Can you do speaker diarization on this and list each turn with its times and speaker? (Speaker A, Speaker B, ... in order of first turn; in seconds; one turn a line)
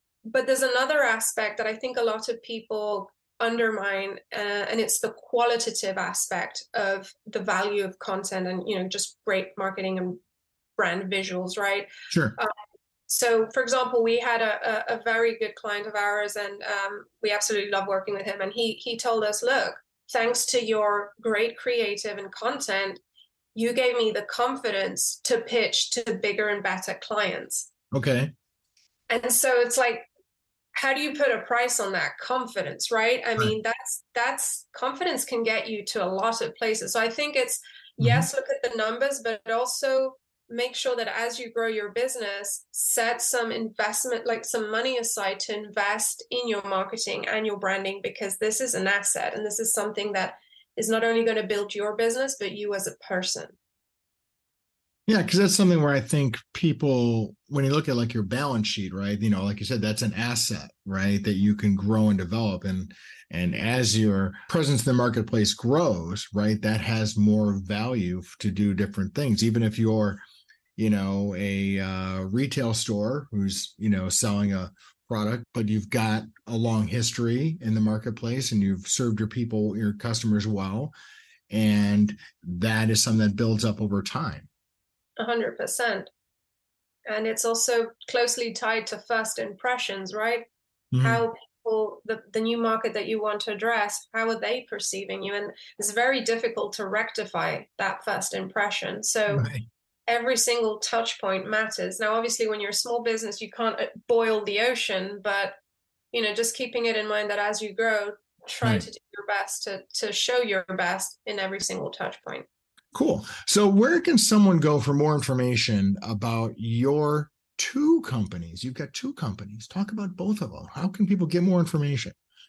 Speaker A: 0.2-10.2
Speaker A: 10.8-12.5
Speaker B: 12.1-12.3
Speaker A: 13.1-23.0
Speaker A: 23.5-27.7
Speaker B: 27.9-28.3
Speaker A: 29.1-30.1
Speaker A: 30.7-53.5
Speaker B: 38.0-38.3
Speaker B: 55.1-70.2
Speaker B: 70.8-80.9
Speaker B: 81.5-84.5
Speaker A: 85.2-86.1
Speaker A: 87.0-90.5
Speaker B: 90.9-91.2
Speaker A: 91.0-99.5
Speaker B: 99.3-99.7
Speaker A: 100.1-105.5
Speaker A: 106.1-112.5
Speaker B: 112.9-122.1